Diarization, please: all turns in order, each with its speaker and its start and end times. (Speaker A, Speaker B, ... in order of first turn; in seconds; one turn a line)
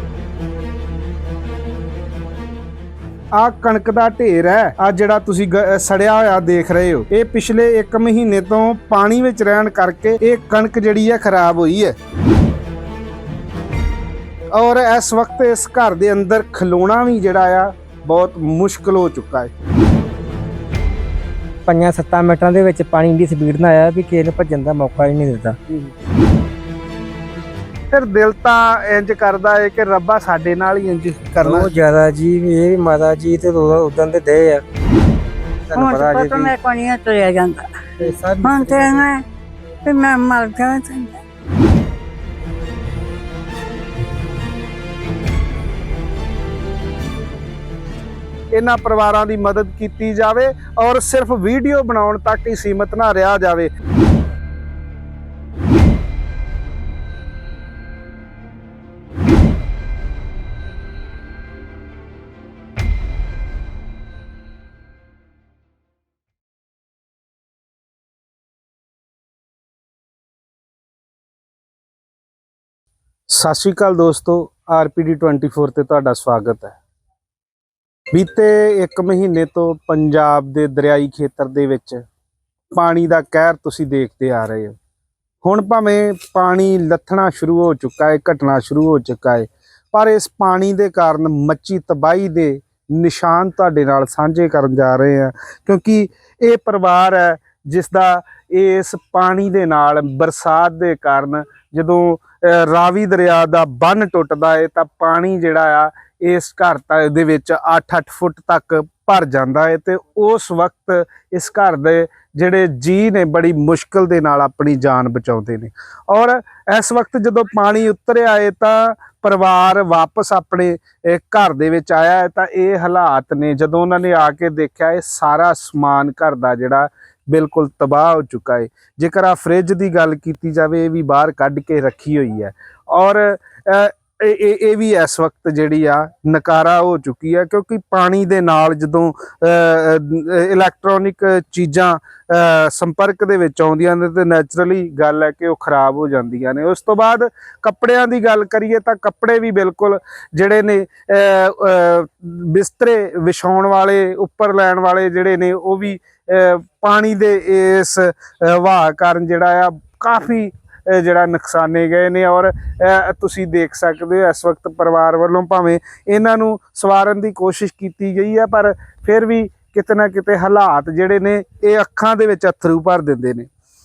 Speaker A: 3.3-11.9
Speaker A: 14.5-19.5
Speaker B: 21.6-25.6
Speaker A: 27.9-31.7
Speaker B: 31.4-34.6
Speaker B: 35.7-36.5
Speaker C: 35.8-37.9
Speaker B: 38.0-39.0
Speaker C: 38.4-39.2
Speaker C: 39.8-41.2
Speaker A: 48.5-53.7
Speaker A: 73.3-76.7
Speaker A: 78.1-82.0
Speaker A: 82.7-84.8
Speaker A: 85.4-173.5